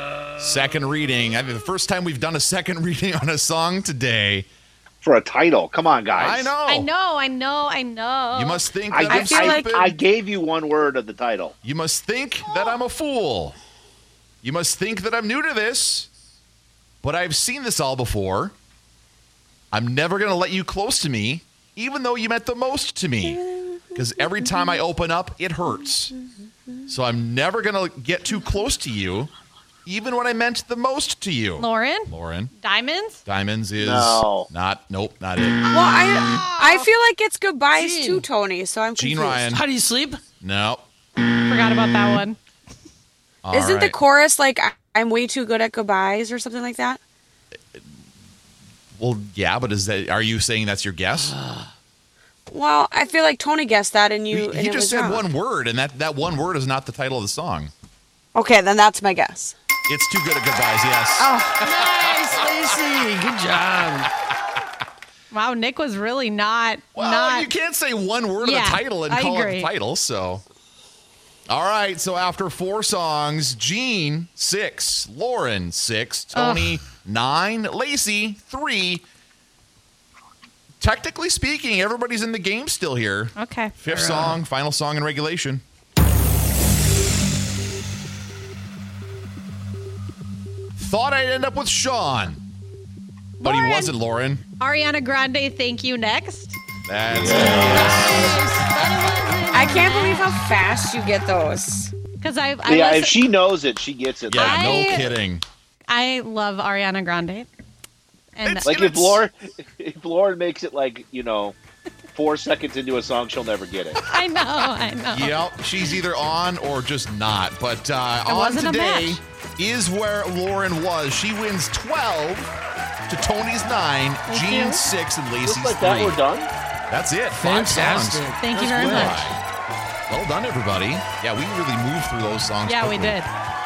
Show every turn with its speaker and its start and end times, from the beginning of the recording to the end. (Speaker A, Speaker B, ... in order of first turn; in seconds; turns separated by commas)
Speaker A: 0.4-4.5, Speaker B: 5.0-6.5, Speaker A: 6.2-6.9, Speaker C: 6.7-8.7, Speaker A: 8.3-9.9, Speaker B: 8.9-11.5, Speaker D: 9.0-9.7, Speaker A: 11.6-13.6, Speaker A: 14.4-16.1, Speaker A: 17.0-18.5, Speaker A: 19.7-26.1, Speaker A: 26.9-29.3, Speaker A: 29.9-32.5, Speaker C: 31.6-33.2, Speaker A: 33.2-35.6, Speaker B: 33.8-34.5, Speaker D: 35.7-39.5, Speaker C: 35.7-36.9, Speaker E: 37.7-38.2, Speaker A: 39.0-39.6, Speaker E: 39.4-40.2, Speaker A: 40.4-40.8, Speaker C: 41.5-42.4, Speaker A: 43.4-44.0, Speaker D: 43.5-47.0, Speaker A: 49.0-51.4, Speaker E: 51.4-51.7, Speaker D: 52.5-55.2, Speaker A: 54.3-57.7, Speaker D: 58.3-59.5, Speaker A: 59.9-62.5, Speaker D: 61.2-61.7, Speaker E: 61.6-64.1, Speaker C: 65.3-67.5, Speaker A: 66.9-70.4, Speaker C: 68.4-69.7, Speaker A: 71.5-79.0, Speaker C: 76.3-76.8, Speaker A: 80.8-85.6, Speaker C: 83.3-83.8, Speaker E: 83.9-84.4, Speaker A: 90.8-92.4, Speaker C: 93.4-93.9, Speaker A: 93.4-94.4, Speaker C: 94.6-96.6, Speaker A: 96.8-98.4, Speaker B: 97.1-98.1, Speaker C: 97.3-100.4, Speaker D: 99.5-101.9, Speaker C: 102.2-103.2, Speaker B: 102.7-105.1, Speaker A: 104.3-105.4, Speaker C: 104.3-105.1, Speaker C: 105.9-107.5, Speaker C: 108.3-108.8, Speaker A: 108.4-109.2, Speaker B: 108.6-111.6, Speaker B: 112.1-114.0, Speaker C: 114.0-115.4, Speaker A: 115.1-122.5, Speaker C: 118.2-119.2, Speaker A: 123.1-126.2, Speaker D: 124.3-124.8, Speaker B: 125.4-126.5, Speaker A: 126.9-129.4, Speaker E: 127.3-129.3, Speaker C: 128.4-129.3, Speaker A: 130.1-133.2, Speaker C: 132.7-133.3